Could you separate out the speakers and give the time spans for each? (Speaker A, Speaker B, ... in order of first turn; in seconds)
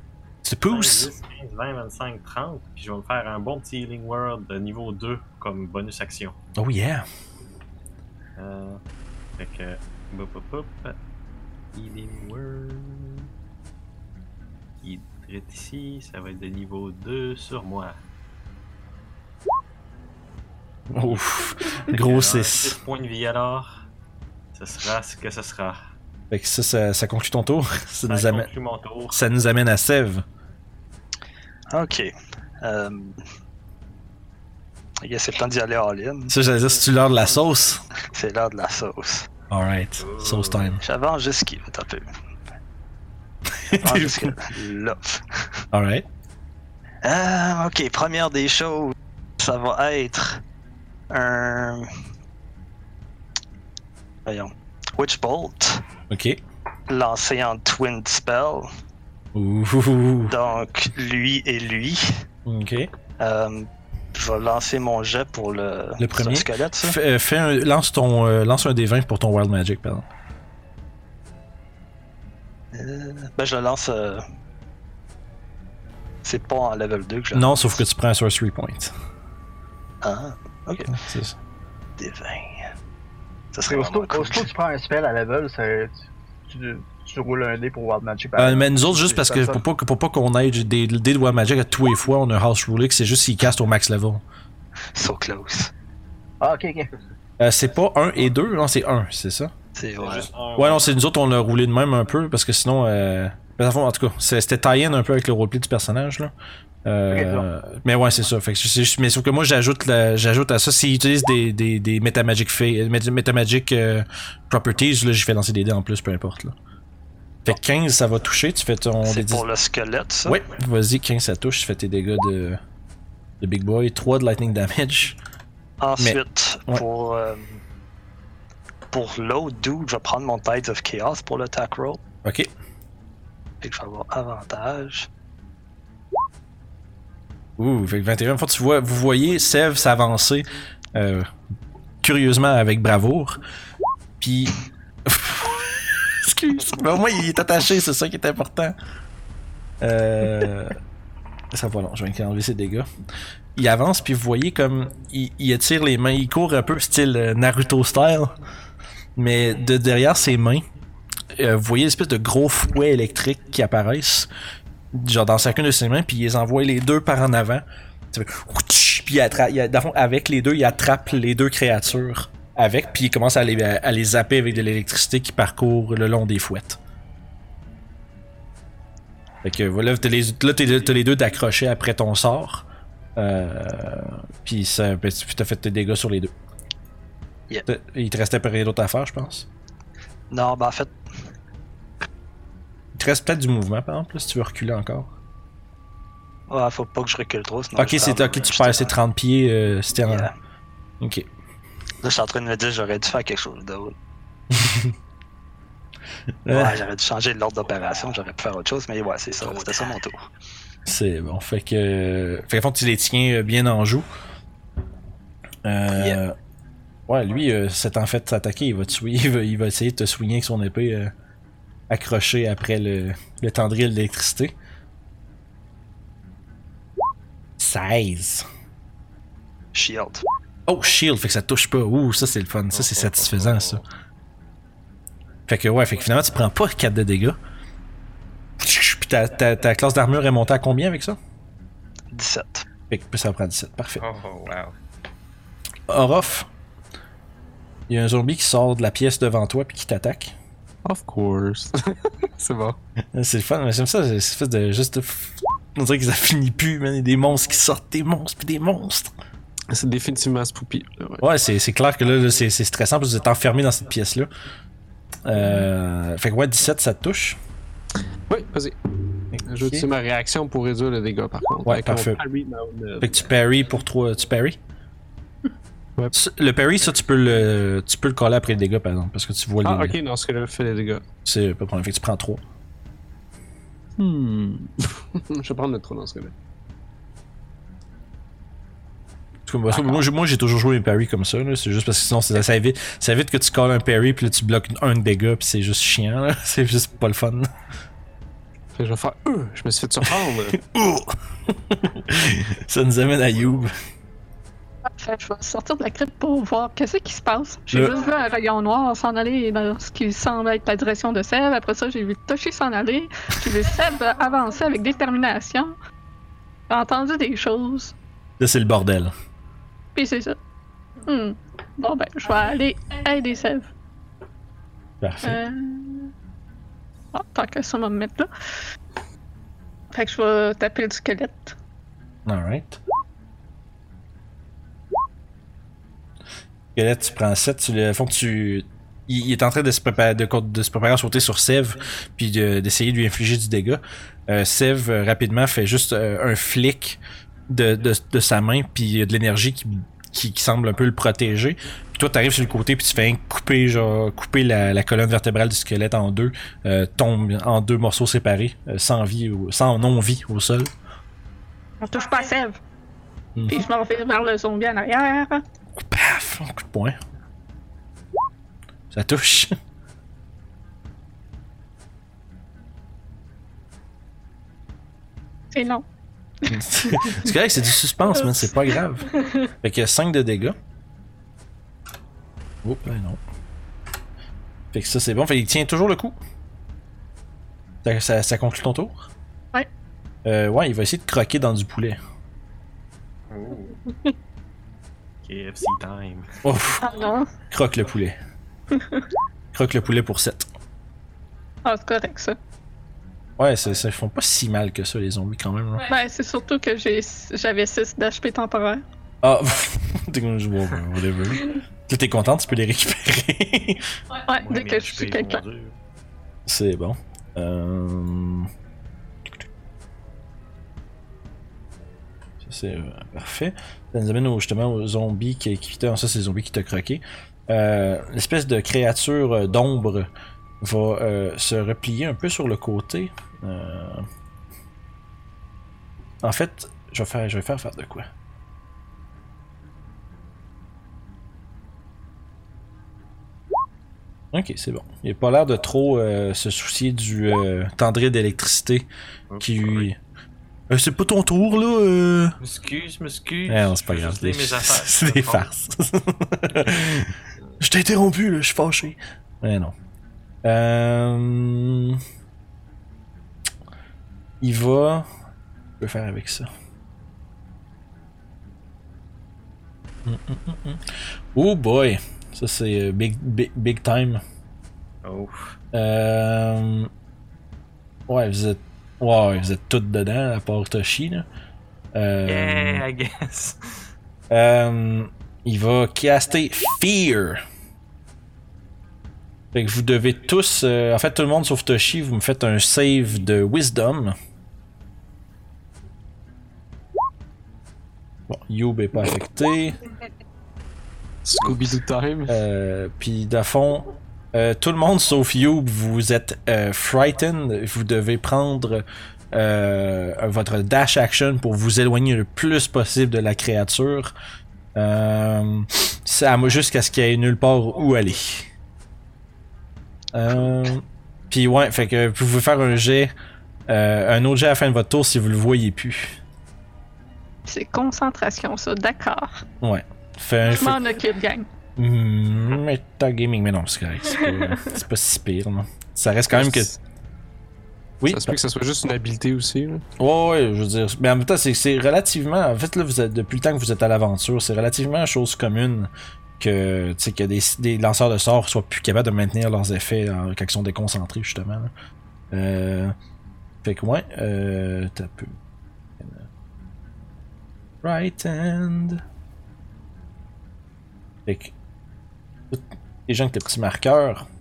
Speaker A: 0.4-1.1, 6.6-7.0, 20.9-22.8, 26.3-28.5, 29.1-30.2, 36.3-37.8, 39.5-40.8, 43.6-44.3, 45.7-46.0, 56.1-56.4, 59.3-60.3, 62.4-62.9, 66.0-70.0, 77.3-78.9, 80.9-81.4, 88.4-94.2, 97.4-99.5, 100.6-106.3, 106.8-116.5, 117.4-119.4, 120.2-122.6, 123.4-125.2, 126.0-126.8, 132.2-132.5, 137.6-141.3, 142.0-143.4, 144.2-148.7, 149.8-150.8, 151.5-152.9, 153.6-158.3, 159.2-160.6, 161.3-164.3, 164.9-176.8, 179.4-186.3, 187.7-189.5, 192.9-195.1, 197.8-200.3, 201.0-201.3, 204.5-204.9, 206.4-206.8, 210.8-214.1, 215.6-216.3, 217.1-221.1, 221.9-224.5, 227.6-228.4, 230.7-233.8, 235.5-237.4, 238.6-241.2, 242.9-244.0, 245.9-246.5, 247.9-250.3, 253.1-259.1, 261.2-264.3, 265.2-267.4, 269.3-269.9, 271.6-272.2, 273.0-274.6, 276.1-280.0, 281.2-282.4, 289.4-297.5, 300.5-303.7, 318.4-319.1, 325.0-325.4, 332.2-332.8, 336.7-360.7, 365.8-367.0, 368.9-369.5, 376.5-379.1, 379.6-380.6, 382.6-383.2, 384.7-386.2, 387.8-389.1, 390.2-392.0, 396.4-396.8, 397.5-398.2, 399.5-400.5, 403.4-405.8, 409.2-413.9, 416.5-418.5, 422.4-430.1, 430.6-434.1, 436.2-438.1, 444.3-448.9, 449.4-450.0, 450.7-452.4, 453.5-459.7, 460.4-462.0, 464.4-465.1, 465.8-466.5, 470.0-474.2, 475.7-476.9, 478.1-481.3, 481.9-482.8, 484.3-487.4, 489.5-494.1, 498.3-499.8, 502.3-514.1, 514.7-518.5, 520.1-523.1, 523.7-526.2, 529.6-530.8, 531.8-536.7, 538.0-538.4, 540.0-551.7, 552.3-552.9, 553.6-555.3, 556.0-556.2, 557.8-559.0, 561.2-561.5, 562.5-564.2
Speaker B: 0.7-6.3, 8.4-8.8, 9.4-11.0, 11.7-13.3, 14.8-18.0, 21.8-23.8, 24.5-25.8, 28.0-29.2, 40.0-40.7, 100.0-101.0, 232.7-233.8, 244.0-244.7, 393.3-393.7, 395.2-396.3, 414.4-415.7, 449.3-449.9, 452.4-455.5, 475.0-475.6, 482.2-483.6
Speaker C: 31.7-33.2, 35.0-36.3, 38.0-39.3, 40.8-42.0, 43.8-45.6, 47.0-50.4, 51.1-51.9, 54.2-55.8, 56.9-58.7, 60.2-62.1, 63.2-66.9, 72.7-74.2, 76.2-77.8, 80.0-80.9, 82.0-82.7, 83.5-84.5, 94.9-95.7, 99.8-100.3, 119.0-120.4, 125.8-127.6, 128.9-132.0, 133.6-135.1, 190.3-190.9, 196.5-198.9, 200.1-200.3, 202.0-203.9, 206.5-210.2, 215.9-216.2, 229.7-230.2, 242.1-242.7
Speaker D: 83.7-86.0, 86.5-89.6, 96.4-96.9, 107.1-107.5
Speaker E: 250.8-252.8, 259.7-261.2, 268.3-268.8, 269.4-273.3, 279.6-281.0, 284.0-286.3, 298.7-300.6, 501.2-502.4, 536.3-536.7, 538.0-539.8
Speaker F: 304.9-315.7, 316.7-317.9, 319.9-320.4, 321.0-323.7, 325.2-326.1, 327.1-328.3, 329.9-331.6, 361.8-362.6, 363.5-365.4, 375.5-375.8, 376.4-377.3, 379.1-379.5, 396.8-397.3, 398.8-399.0, 401.6-402.4, 405.8-408.8, 414.2-415.4, 527.5-529.4, 530.5-531.5